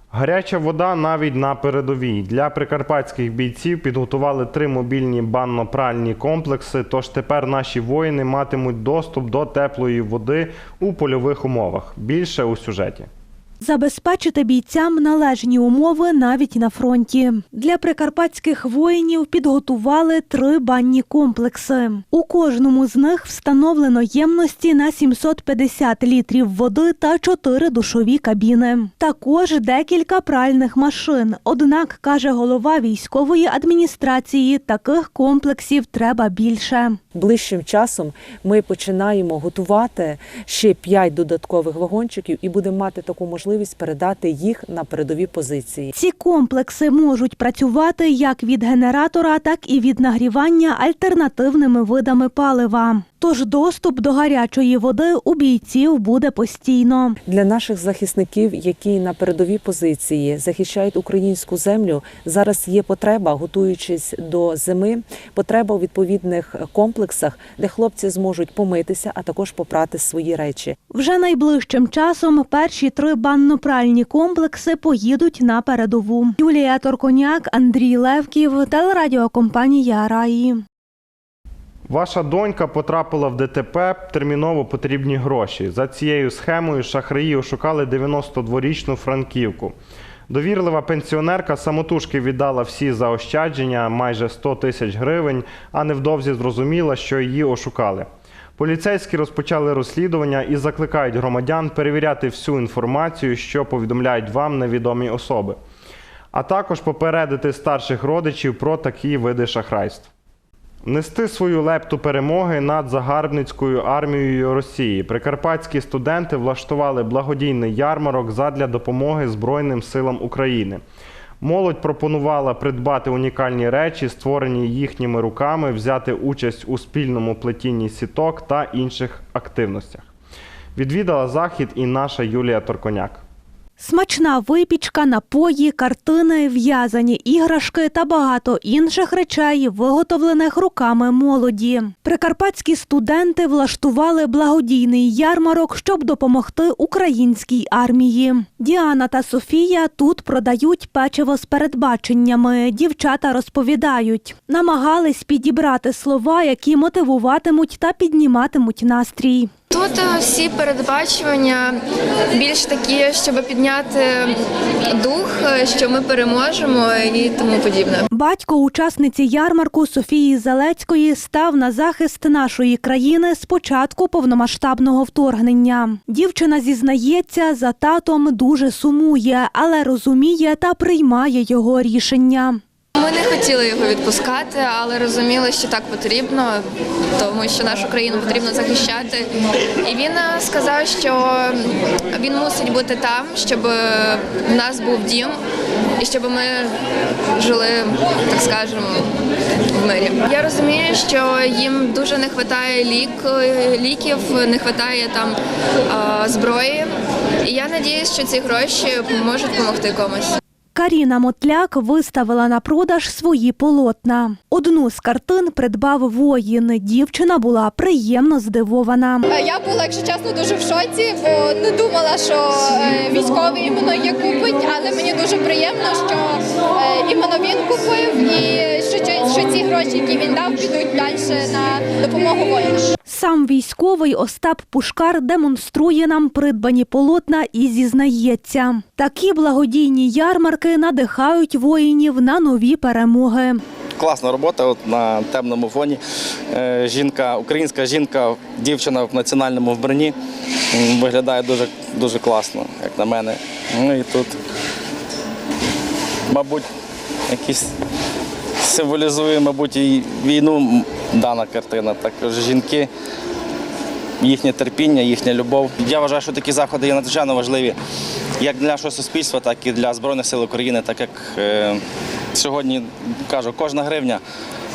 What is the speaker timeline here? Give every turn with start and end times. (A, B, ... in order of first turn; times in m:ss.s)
0:00.1-0:13.1 A
0:13.6-0:37.0 B
0:37.1-0:45.9 C
0:46.0-0:57.1 B
0:57.2-1:10.8 C
1:10.9-1:20.5 B
1:21.9-1:29.7 A
1:30.3-1:45.6 A
1:46.3-1:50.1 A
1:50.8-2:00.8 A
2:01.4-2:10.1 A
2:10.7-2:13.2 A
2:13.8-2:39.5 B
2:39.7-2:48.0 D
2:48.1-3:02.6 B
3:02.9-3:09.3 D
3:09.8-3:15.4 D
3:16.0-3:16.8 D
3:17.3-3:19.1 D
3:19.7-3:26.9 D
3:27.4-3:30.4 D
3:30.7-3:39.2 B
3:39.3-3:52.9 E
3:53.1-4:03.6 B
4:04.0-4:06.0 F
4:06.5-4:10.1 F
4:10.7-4:14.4 F
4:16.3-4:16.6 F
4:17.3-4:17.7 F
4:18.6-4:22.9 F
4:24.2-4:27.8 F
4:28.4-4:31.8 F
4:32.3-4:34.2 F